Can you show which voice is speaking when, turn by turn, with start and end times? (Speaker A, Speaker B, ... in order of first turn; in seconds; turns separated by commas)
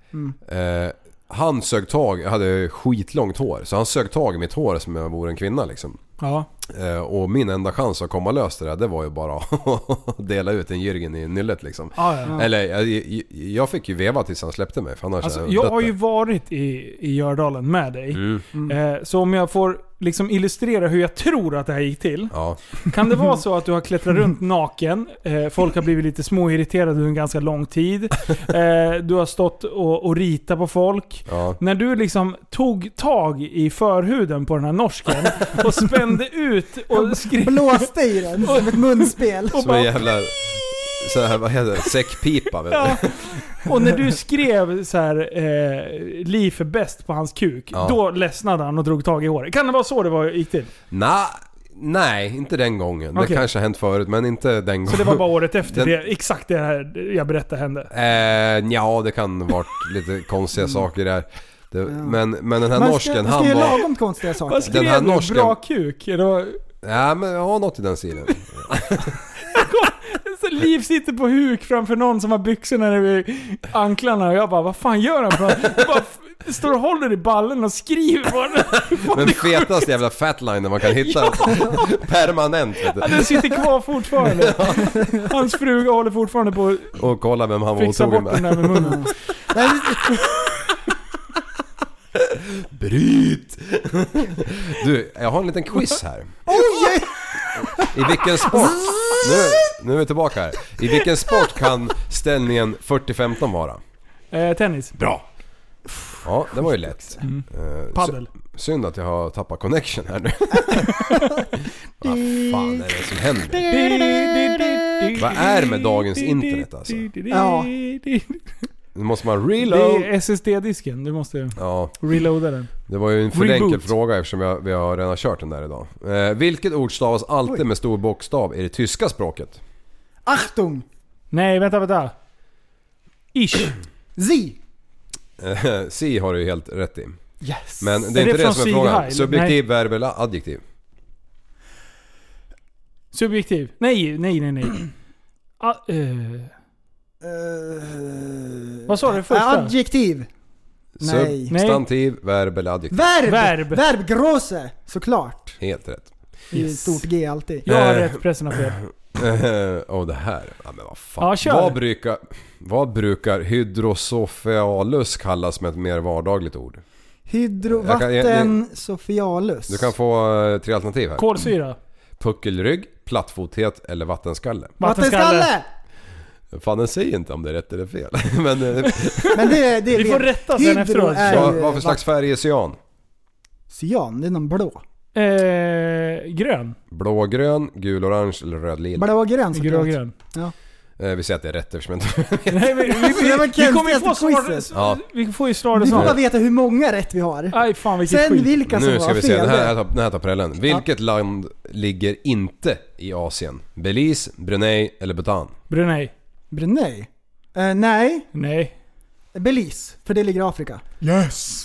Speaker A: 0.4-6.0, Speaker B: 6.2-6.5, Speaker A: 6.7-15.9, Speaker B: 12.0-12.3, Speaker B: 15.2-22.3, Speaker A: 18.1-18.4, Speaker A: 22.3-22.6, Speaker B: 22.9-37.9, Speaker A: 31.3-31.6, Speaker C: 36.9-39.7, Speaker B: 38.5-39.9, Speaker A: 39.5-43.4, Speaker B: 42.7-50.7, Speaker A: 47.7-48.0, Speaker A: 50.9-56.0, Speaker B: 53.1-53.5, Speaker B: 54.9-57.9, Speaker A: 57.9-63.9, Speaker C: 61.9-62.1, Speaker C: 62.7-64.8, Speaker B: 64.5-66.6, Speaker A: 64.6-65.5, Speaker A: 66.8-69.2, Speaker B: 69.5-79.8, Speaker A: 79.0-83.4, Speaker B: 81.0-81.8, Speaker B: 82.9-87.0, Speaker A: 84.2-84.9, Speaker A: 87.0-89.0, Speaker B: 87.8-89.1, Speaker C: 88.8-90.3, Speaker A: 92.1-96.4, Speaker C: 96.5-99.7, Speaker A: 97.9-103.8, Speaker C: 101.0-101.5, Speaker B: 104.3-105.0, Speaker A: 105.0-105.2, Speaker C: 106.0-107.2, Speaker A: 106.2-111.0, Speaker B: 107.2-108.3, Speaker A: 112.0-113.7, Speaker C: 112.0-112.8, Speaker C: 113.5-115.1, Speaker B: 113.7-118.4, Speaker A: 115.2-117.1, Speaker C: 117.3-117.7, Speaker A: 118.9-120.1, Speaker B: 119.6-122.7, Speaker A: 121.5-122.0, Speaker A: 122.9-129.6, Speaker B: 123.3-123.9, Speaker C: 130.2-130.8, Speaker B: 131.3-132.1, Speaker B: 133.3-133.8, Speaker C: 134.2-134.6, Speaker A: 135.4-137.2, Speaker C: 137.4-138.0, Speaker A: 137.8-140.6, Speaker B: 138.1-139.6, Speaker B: 143.1-144.9, Speaker B: 145.6-146.5, Speaker C: 147.2-150.3, Speaker B: 148.9-149.7, Speaker A: 151.0-153.1, Speaker C: 151.0-151.5, Speaker B: 151.5-151.8, Speaker C: 152.9-155.6, Speaker B: 153.2-153.8, Speaker A: 155.6-156.1, Speaker B: 156.5-157.0, Speaker C: 156.5-157.7, Speaker B: 157.6-158.8, Speaker A: 157.7-166.8, Speaker B: 161.2-161.8, Speaker C: 167.3-169.9, Speaker A: 167.6-168.6, Speaker A: 169.7-171.4, Speaker B: 171.2-171.8, Speaker A: 172.2-174.8, Speaker B: 174.8-175.5, Speaker C: 174.8-175.7, Speaker A: 176.5-179.5, Speaker B: 179.1-179.3, Speaker C: 179.3-182.0, Speaker B: 179.9-181.6, Speaker A: 181.2-182.8, Speaker C: 183.7-184.8, Speaker B: 185.1-186.8, Speaker A: 186.9-189.1, Speaker C: 188.9-190.5, Speaker B: 189.5-190.1, Speaker A: 191.0-193.2, Speaker B: 192.5-196.2, Speaker C: 192.9-194.7, Speaker A: 194.7-195.0, Speaker C: 195.8-199.8, Speaker A: 195.9-196.2, Speaker B: 197.5-198.5, Speaker A: 198.7-205.5, Speaker B: 205.7-206.1, Speaker C: 206.5-208.3, Speaker B: 208.3-208.7, Speaker C: 209.3-211.3